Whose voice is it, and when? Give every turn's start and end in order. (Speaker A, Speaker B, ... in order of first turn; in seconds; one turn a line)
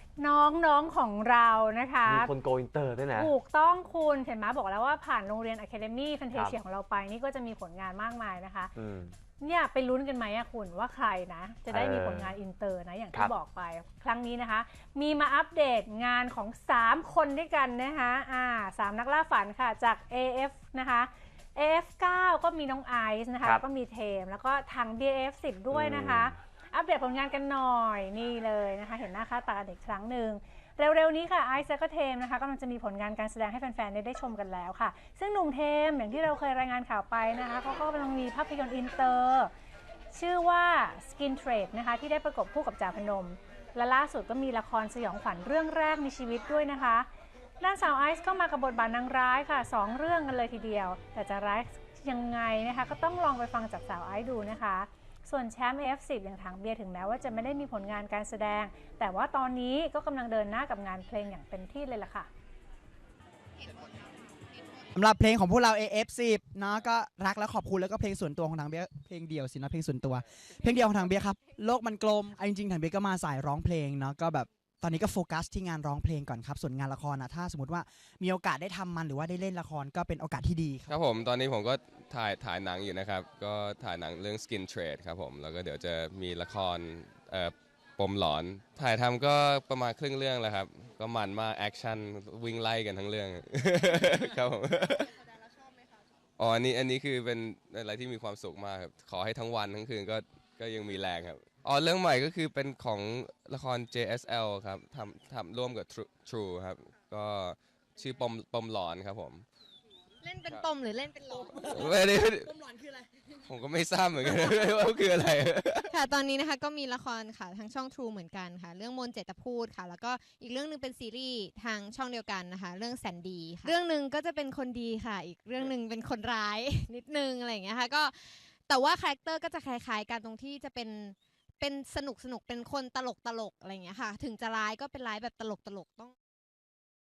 Speaker A: 0.2-2.3
Speaker B: 2.1-3.3
Speaker A: 3.1-8.8
Speaker B: 6.3-6.6
Speaker B: 8.8-9.2
Speaker A: 9.4-39.5
Speaker B: 11.7-12.4
Speaker B: 25.7-26.4
Speaker A: 40.1-47.1
Speaker A: 47.6-62.3
Speaker C: 64.9-81.0
Speaker D: 80.9-95.2
Speaker D: 96.4-109.4
Speaker E: 110.2-111.9
Speaker D: 111.5-112.8
Speaker D: 113.4-116.0
Speaker E: 115.9-136.1